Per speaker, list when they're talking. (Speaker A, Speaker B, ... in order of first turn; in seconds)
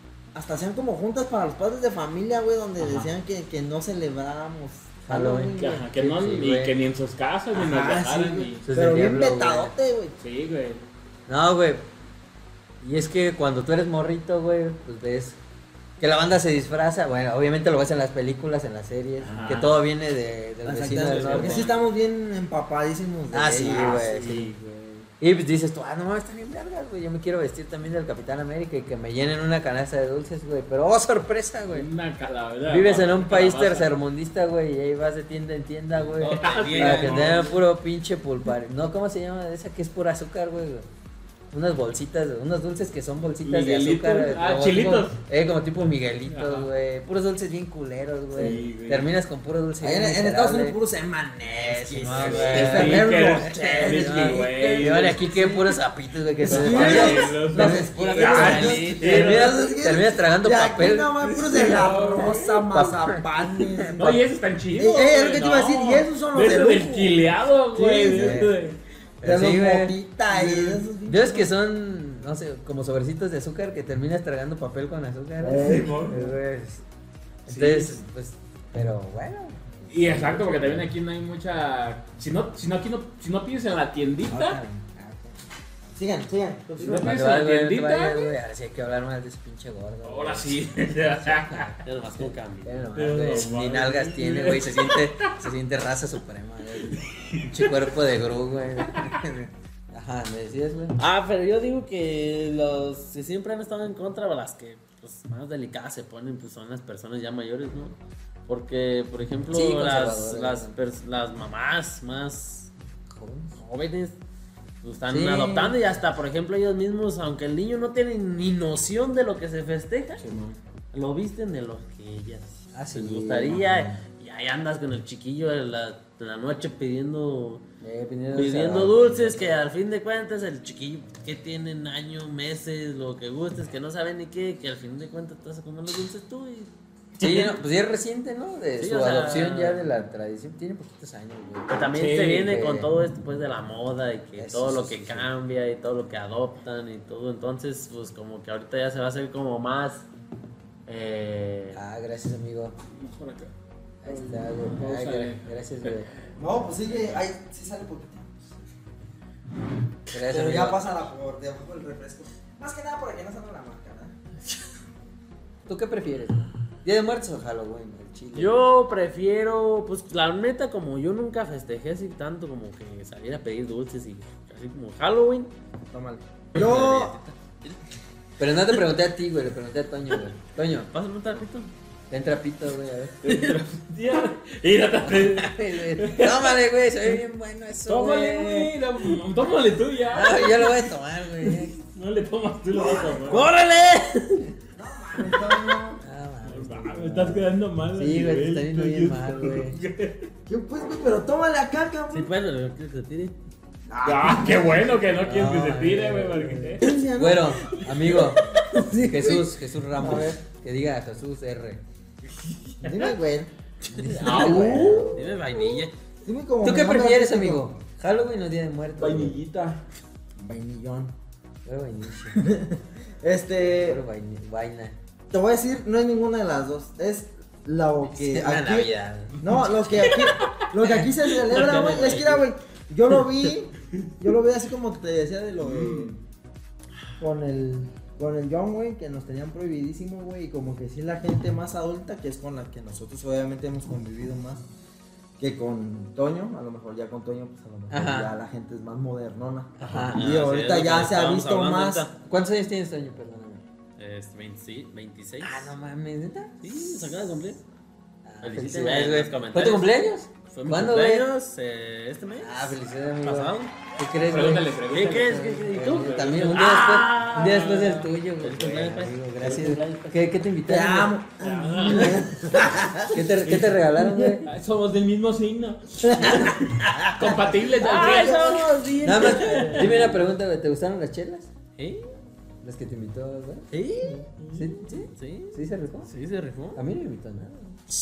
Speaker A: 0.3-5.9, 7.5-10.1, 20.6-24.1, 49.8-55.6, 56.4-64.2, 64.8-68.5, 69.2-71.5, 75.4-76.2, 84.3-85.4, 85.9-87.2, 156.4-158.6, 160.2-164.1, 175.9-177.2, 192.7-193.5, 194.7-196.0, 200.5-202.3, 203.9-205.0, 206.8-210.4, 212.8-215.3, 216.2-217.7, 220.4-221.1, 222.3-224.0, 225.3-236.2, 237.2-244.7, 245.4-252.1, 270.7-273.2, 276.0-279.2
Speaker B: 2.8-3.1, 5.5-8.7, 10.2-10.8, 19.2-19.8, 21.0-21.8, 23.6-25.1, 31.7-33.9, 36.2-37.5, 43.4-45.2, 46.2-46.7, 48.3-49.1, 52.0-55.3, 56.4-59.6, 61.2-62.6, 64.0-68.8, 70.3-70.8, 75.5-76.2, 77.5-78.0, 79.9-84.6, 86.8-88.3, 90.0-91.8, 92.9-95.3, 96.9-97.8, 120.2-120.6, 137.2-137.5, 141.9-142.5, 152.9-153.5, 154.1-156.3, 183.2-186.6, 187.9-190.9, 191.4-193.5, 196.4-200.3, 204.0-206.9, 214.2-215.2, 219.0-219.8, 229.9-230.6, 231.4-232.1, 235.6-236.1, 264.2-265.5, 267.4-268.0, 271.4-272.2, 273.4-273.8, 274.4-280.0
Speaker C: 5.0-6.8, 8.6-9.7, 11.3-11.9, 12.8-15.4, 16.0-21.7, 23.3-24.5, 25.2-31.9, 32.7-40.9, 41.5-50.8, 51.4-64.2, 68.1-68.6, 69.2-70.0, 71.0-76.8, 77.5-80.9, 86.9-101.0, 109.5-110.8, 113.1-113.6, 115.1-115.8, 122.7-124.0, 127.8-129.6, 137.2-142.9, 144.4-145.3, 151.7-152.8, 154.0-156.1, 160.1-160.9, 165.7-168.6, 178.4-180.9, 182.1-183.2, 185.0-188.7, 190.1-191.8, 196.0-199.8, 205.2-211.8, 213.9-215.0, 216.6-219.4, 221.6-222.5, 223.7-224.9, 228.1-229.4, 230.8-232.4, 247.9-248.3, 249.8-250.3, 252.2-253.6, 255.4-257.2, 258.2-261.3, 262.4-271.1, 273.1-274.5, 279.0-281.5, 282.6-283.7, 284.5-286.1, 286.7-287.8
Speaker D: 36.1-37.5, 52.1-52.8, 58.0-59.4, 91.8-93.3, 101.0-108.0, 108.5-112.7, 113.6-114.2, 114.8-120.2, 120.9-127.6, 128.3-136.7, 138.8-139.8, 141.7-150.1, 150.9-151.8, 168.3-175.5, 176.5-177.8, 180.9-181.7, 183.2-183.6, 193.2-194.5, 202.1-203.3, 213.9-215.9, 231.6-232.4, 249.9-252.1, 254.0-255.6, 256.6-257.6, 258.4-259.9, 260.5-263.7, 264.9-270.3, 277.8-280.1, 281.8-282.1, 283.7-284.2, 285.0-286.8